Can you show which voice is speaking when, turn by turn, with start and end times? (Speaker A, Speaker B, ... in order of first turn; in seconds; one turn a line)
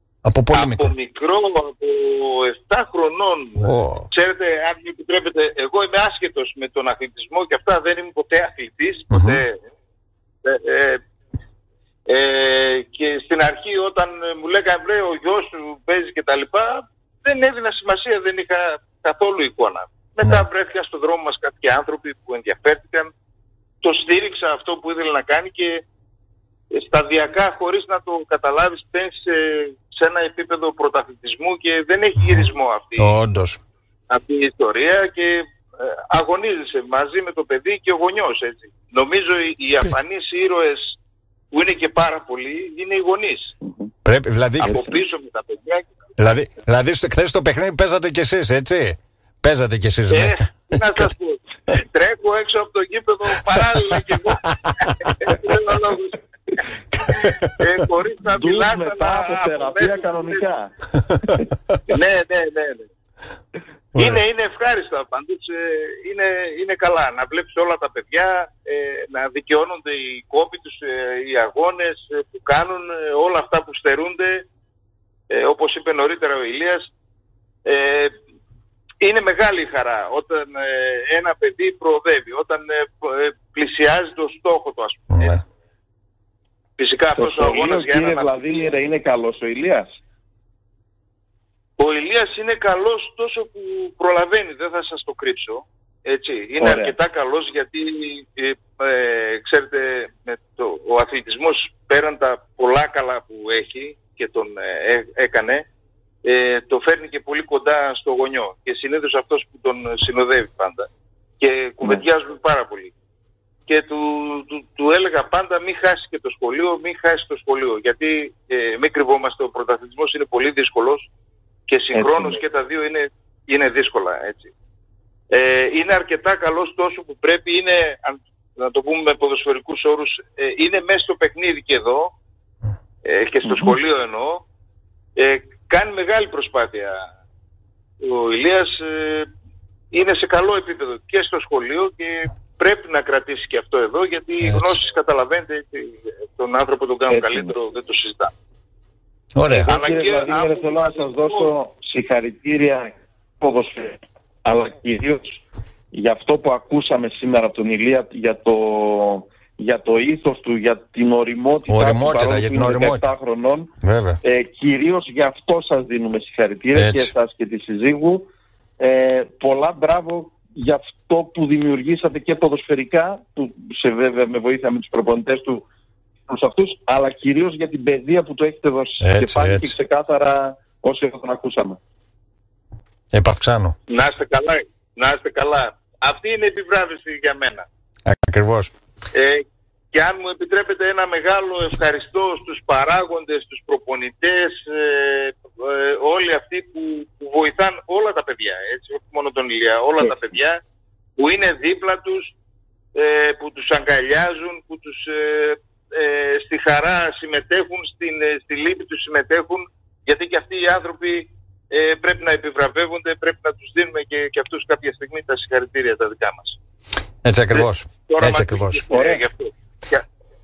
Speaker A: 0.2-0.9
Speaker B: 0.5-9.6
Speaker A: 3.6-4.1
Speaker A: 9.1-9.4
Speaker B: 10.4-11.0
Speaker B: 12.1-23.1
Speaker B: 23.8-25.8
Speaker B: 26.7-33.1
Speaker A: 32.2-32.4
Speaker A: 33.0-33.6
Speaker B: 34.1-35.4
Speaker B: 36.1-41.0
Speaker B: 41.5-43.5
Speaker C: 43.6-43.9
Speaker A: 44.0-45.0
Speaker B: 44.6-45.9
Speaker A: 46.2-51.1
Speaker B: 50.1-56.2
Speaker A: 56.9-57.6
Speaker B: 57.6-60.4
Speaker C: 58.3-60.7
Speaker B: 61.9-62.9
Speaker B: 63.9-74.5
Speaker B: 75.3-76.9
Speaker B: 77.6-78.1
Speaker B: 79.0-85.4
Speaker A: 85.1-85.4
Speaker B: 86.8-88.7
Speaker C: 87.2-89.9
Speaker B: 91.8-105.6
Speaker C: 96.6-96.9
Speaker B: 106.2-110.9
Speaker B: 111.4-112.9
Speaker B: 113.7-121.0
Speaker B: 121.7-124.5
Speaker C: 121.9-122.4
Speaker B: 125.3-132.1
Speaker B: 133.0-134.4
Speaker C: 133.4-133.7
Speaker B: 135.2-137.0
Speaker B: 138.0-139.3
Speaker B: 139.9-148.3
Speaker C: 147.1-147.5
Speaker A: 149.3-149.7
Speaker C: 149.5-163.7
Speaker B: 149.7-151.5
Speaker A: 161.7-163.1
Speaker A: 163.8-164.2
Speaker C: 164.2-168.3
Speaker A: 166.8-167.1
Speaker C: 168.8-175.6
Speaker C: 176.3-181.8
Speaker A: 179.0-179.7
Speaker A: 183.1-183.8
Speaker B: 183.9-187.7
Speaker A: 188.1-188.7
Speaker B: 189.1-200.6
Speaker B: 201.2-202.3
Speaker B: 202.9-216.6
Speaker A: 217.2-218.8
Speaker B: 217.5-220.0
Speaker C: 218.9-219.2